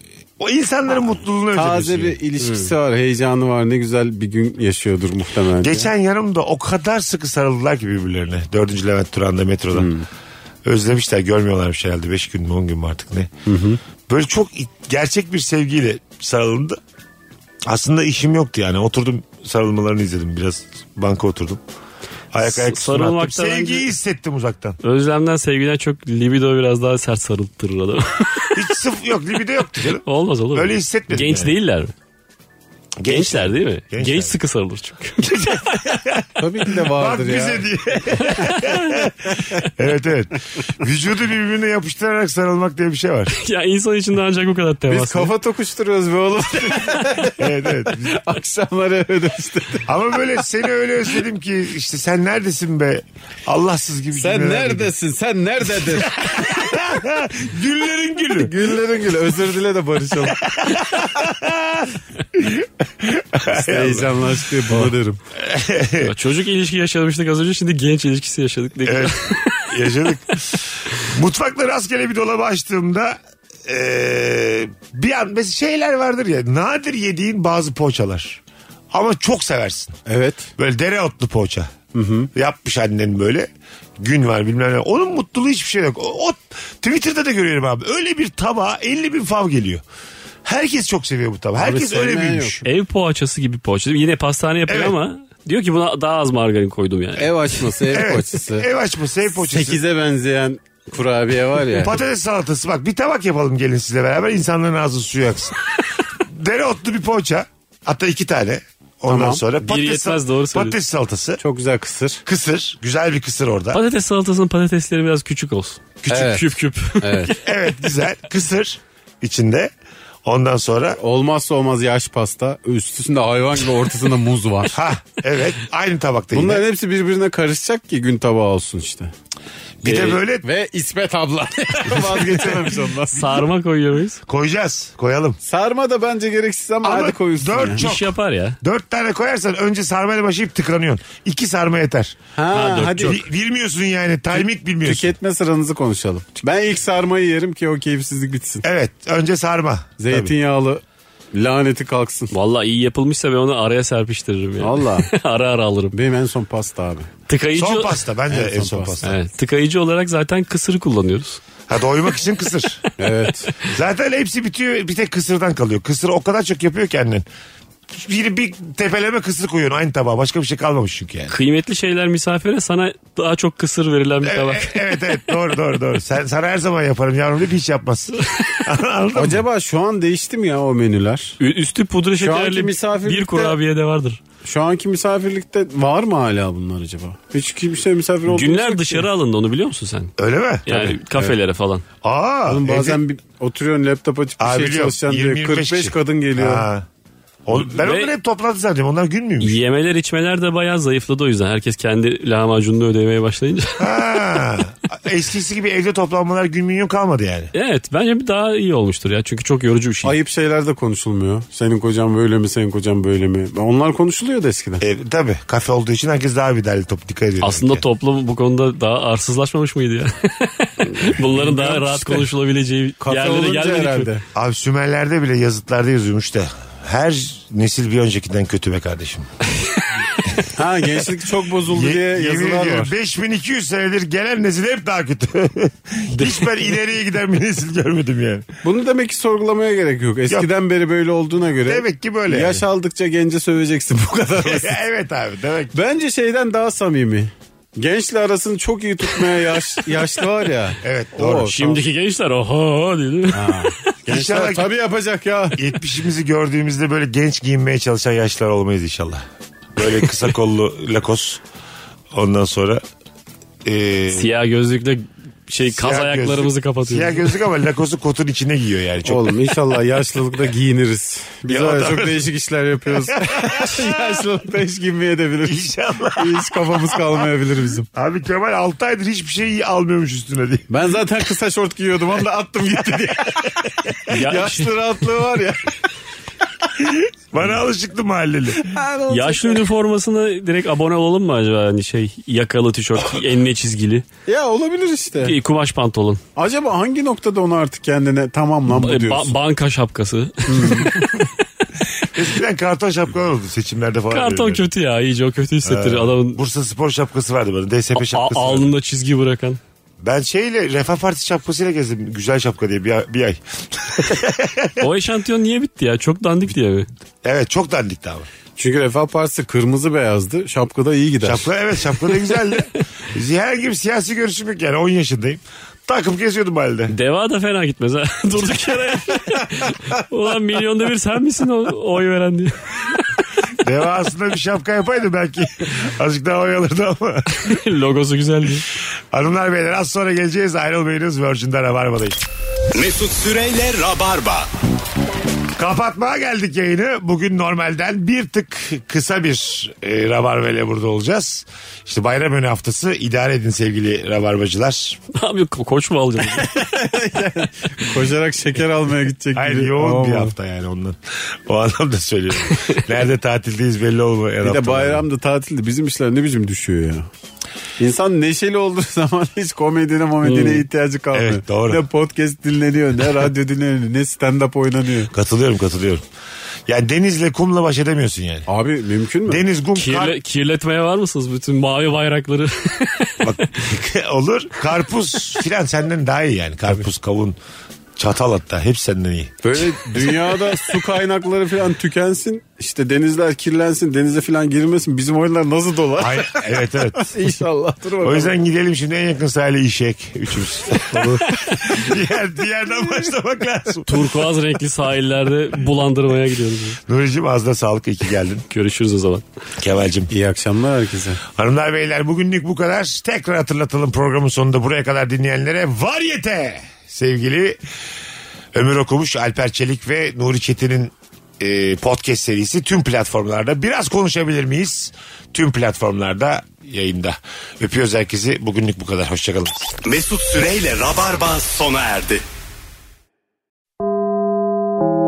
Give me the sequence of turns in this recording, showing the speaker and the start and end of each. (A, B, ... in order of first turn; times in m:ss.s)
0:00.4-0:02.2 A
0:01.5-0:05.9 B
0:05.6-0:09.9 A
0:09.7-0:10.0 B
0:10.6-0:13.3 A
0:13.4-0:13.8 B
0:14.1-0:16.8 A
0:17.6-0:21.6 A
0:22.3-0:24.8 A
0:22.4-0:23.9 C
0:24.8-0:28.6 C
0:28.5-0:31.5 A
0:30.0-0:31.9 C
0:33.0-0:34.4 A
0:33.1-0:35.3 C
0:35.2-0:43.3 A
0:36.4-0:37.7 B
0:38.2-0:39.0 C
0:43.3-0:45.3 C
0:44.9-0:49.9 B
0:47.3-0:48.2 A
0:49.8-0:54.9 A
0:54.1-0:56.3 B
0:55.8-0:58.6 A
0:58.3-1:00.4 B
1:00.4-1:06.1 A
1:03.5-1:05.2 B
1:06.0-1:09.8 C
1:08.8-1:18.4 A
1:18.9-1:20.0 A
1:20.1-1:20.5 B
1:20.6-1:21.7 A
1:21.9-1:22.3 B
1:22.3-1:29.8 A
1:30.4-1:32.6 A
1:31.6-1:32.6 B
1:32.6-1:37.7 C
1:34.7-1:35.0 A
1:37.2-1:38.7 B
1:37.9-1:39.8 A
1:39.3-1:42.0 B
1:41.7-1:45.6 A
1:46.2-1:51.4 A
1:49.1-1:49.4 B
1:49.6-1:50.8 C
1:51.4-1:52.2 B
1:52.2-1:53.8 A
1:53.7-1:57.4 C
1:56.0-1:56.4 A
1:56.1-1:56.5 B
1:57.0-1:57.4 B
1:57.4-1:59.7 A
2:00.2-2:01.0 A
2:01.0-2:04.8 B
2:04.7-2:06.6 A
2:06.3-2:09.1 B
2:09.8-2:10.5 A
2:09.8-2:10.2 C
2:10.4-2:13.4 B
2:11.8-2:12.7 A
2:13.1-2:14.2 C
2:14.2-2:15.4 A
2:15.4-2:17.8 B
2:16.8-2:22.2 A
2:17.8-2:18.6 C
2:22.4-2:23.2 B
2:22.5-2:23.2 C
2:23.0-2:25.1 A
2:24.4-2:28.6 B
2:28.6-2:30.3 A
2:30.0-2:30.8 B
2:31.3-2:32.3 B
2:32.3-2:35.9 C
2:34.6-2:35.1 B
2:35.9-2:37.1 B
2:37.3-2:38.0 C
2:37.5-2:39.2 A
2:38.3-2:39.0 B
2:39.0-2:41.4 C
2:41.7-2:42.8 A
2:43.0-2:43.6 B
2:43.6-2:47.2 A
2:47.9-2:51.3 A
2:51.3-2:54.8 C
2:54.2-2:59.4 A
2:59.1-3:01.4 B
3:01.4-3:04.2 C
3:02.2-3:03.6 B
3:04.4-3:09.0 B
3:08.3-3:10.1 C
3:10.2-3:10.6 A
3:10.6-3:11.8 C
3:10.7-3:11.3 B
3:12.0-3:13.0 A
3:12.5-3:16.7 B
3:14.4-3:16.9 A
3:17.4-3:19.6 A
3:17.5-3:18.1 C
3:19.4-3:23.9 C
3:23.8-3:27.5 A
3:27.5-3:30.2 C
3:30.0-3:34.8 B
3:34.8-3:37.8 A
3:37.4-3:44.1 C
3:41.0-3:42.3 B
3:43.0-3:44.2 B
3:44.3-3:49.3 A
3:50.5-3:52.9 B
3:51.6-3:58.5 A
3:58.6-4:04.8 B
4:01.6-4:02.6 A
4:04.4-4:05.8 A
4:05.7-4:11.8 B
4:10.8-4:11.5 A
4:11.4-4:13.9 C
4:13.3-4:15.7 B
4:14.1-4:14.7 A
4:15.5-4:19.2 A
4:19.8-4:21.4 A
4:22.1-4:22.8 A
4:23.6-4:24.3 A
4:24.1-4:27.2 C
4:25.7-4:29.3 A
4:29.0-4:37.9 B
4:31.5-4:32.3 A
4:33.1-4:34.2 A
4:35.4-4:37.2 A
4:37.9-4:40.6 A
4:40.7-4:45.8 B
4:44.1-4:44.7 C
4:46.8-4:48.7 A
4:48.6-4:49.6 B
4:49.1-4:54.0 C
4:54.2-4:55.4 B
4:55.2-4:56.2 C
4:56.4-4:59.3 B
4:58.7-5:01.3 C
5:00.5-5:01.0 B
5:02.1-5:04.7 A
5:04.1-5:06.4 C
5:05.6-5:08.7 A
5:07.9-5:09.6 C
5:10.0-5:14.9 A
5:14.8-5:16.9 C
5:17.2-5:18.3 A
5:18.6-5:21.5 B
5:21.2-5:26.9 A
5:26.9-5:32.6 C
5:33.6-5:37.5 A
5:37.3-5:38.6 C
5:39.1-5:42.2 A
5:42.7-5:44.5 D
5:45.6-5:55.0 A
5:55.1-5:56.5 C
5:56.4-6:00.3 B
5:59.3-6:05.0 A
6:02.5-6:02.8 C
6:04.4-6:07.1 B
6:07.8-6:15.1 B
6:10.2-6:10.6 C
6:11.1-6:11.8 A
6:15.1-6:16.0 A
6:16.7-6:18.5 A
6:18.5-6:19.4 B
6:19.3-6:20.2 A
6:19.7-6:23.7 C
6:23.2-6:27.4 A
6:28.0-6:30.3 A
6:29.4-6:38.4 B
6:36.0-6:37.1 A
6:38.0-6:43.9 A
6:40.9-6:41.2 C
6:41.3-6:41.8 B
6:43.8-6:46.8 C
6:46.9-6:48.4 A
6:48.5-6:49.2 C
6:49.6-6:50.1 A
6:50.1-6:51.2 B
6:51.3-6:57.6 A
6:58.5-7:09.8 A
7:09.8-7:12.2 D